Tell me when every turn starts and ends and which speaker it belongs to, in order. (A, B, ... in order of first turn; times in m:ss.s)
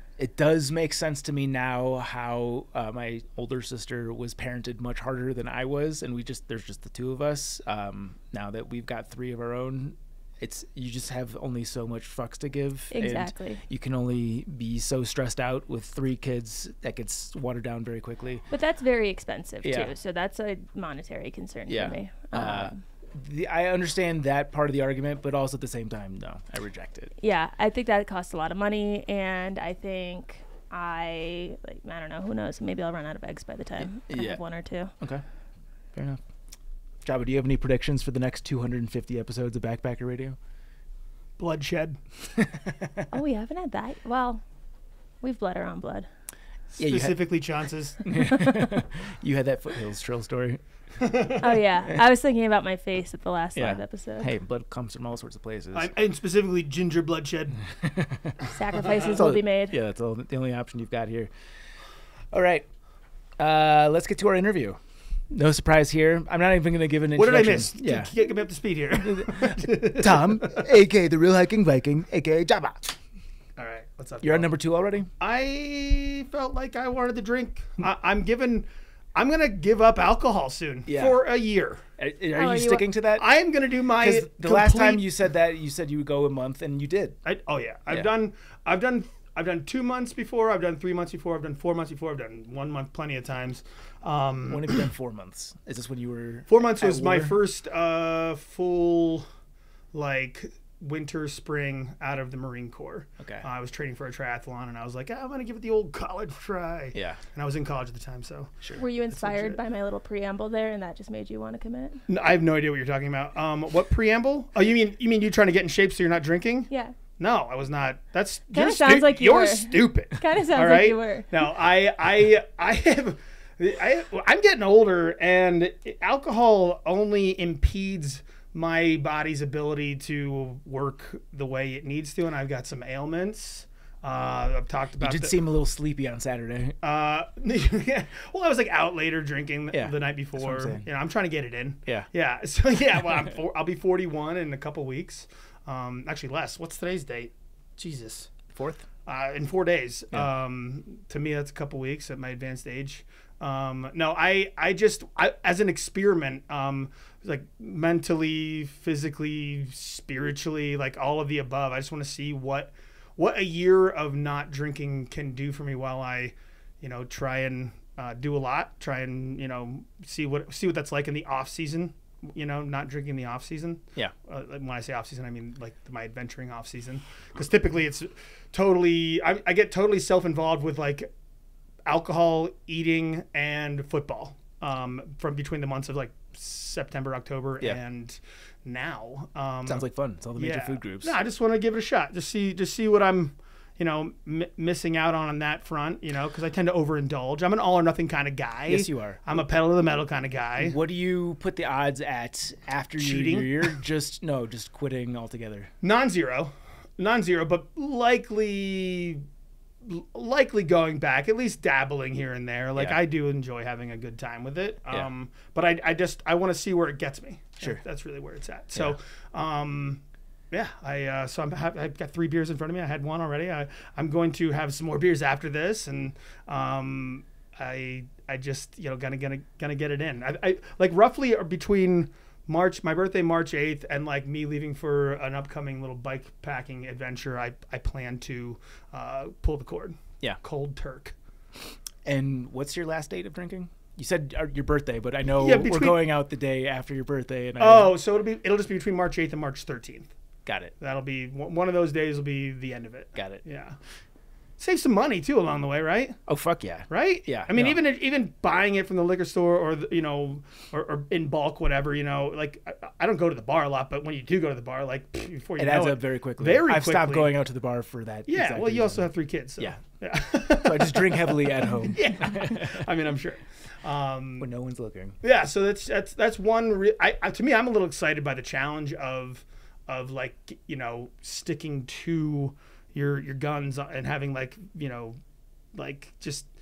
0:00.2-0:18.4 A
0:12.9-0:13.6 B
0:18.5-0:22.8 B
0:19.6-0:19.9 A
0:21.7-0:27.1 A
0:27.2-0:34.9 B
0:34.0-0:34.4 A
0:35.9-0:36.2 A
0:37.0-0:40.4 A
0:41.4-0:42.0 C
0:42.4-0:42.9 A
0:43.1-0:44.4 B
0:45.2-0:46.1 B
0:46.8-0:48.0 C
0:46.8-0:47.2 A
0:48.0-0:50.6 A
0:51.0-0:51.4 C
0:51.4-0:54.3 B
0:53.5-0:55.9 A
0:55.7-0:57.6 C
0:57.8-0:58.3 A
0:58.5-0:59.8 B
0:58.9-1:01.3 A
1:02.3-1:02.7 A
1:03.4-1:08.1 A
1:07.2-1:10.6 C
1:09.0-1:12.9 A
1:13.6-1:14.5 C
1:14.2-1:15.1 A
1:15.2-1:21.8 C
1:20.8-1:21.2 A
1:22.0-1:23.2 A
1:22.3-1:22.8 B
1:23.2-1:25.0 C
1:24.0-1:27.2 A
1:27.2-1:34.8 C
1:34.5-1:37.3 A
1:36.5-1:39.3 C
1:39.9-1:49.6 C
1:43.2-1:43.4 A
1:46.9-1:47.2 A
1:48.8-1:52.0 B
1:52.1-2:15.4 C
1:56.7-1:56.9 B
1:58.5-2:01.3 B
2:15.0-2:16.8 A
2:16.8-2:28.3 C
2:19.7-2:20.8 A
2:28.5-2:28.8 A
2:29.0-3:01.1 C
3:01.8-3:09.8 C
3:09.6-3:11.2 A
3:10.4-3:20.8 C
3:18.7-3:19.2 A
3:20.6-3:25.7 A
3:23.0-3:23.7 C
3:25.8-3:29.2 C
3:29.8-4:01.1 C
4:02.0-4:07.9 A
4:05.3-4:06.0 C
4:07.6-4:10.1 C
4:10.4-4:10.7 A
4:10.8-4:13.8 C
4:13.2-4:13.4 A
4:14.6-4:16.2 C
4:16.3-4:17.8 A
4:16.9-4:27.3 C
4:25.6-4:29.1 A
4:28.3-4:34.5 C
4:30.6-4:32.8 A
4:34.4-4:35.2 A
4:35.2-4:45.2 C
4:45.7-4:46.5 C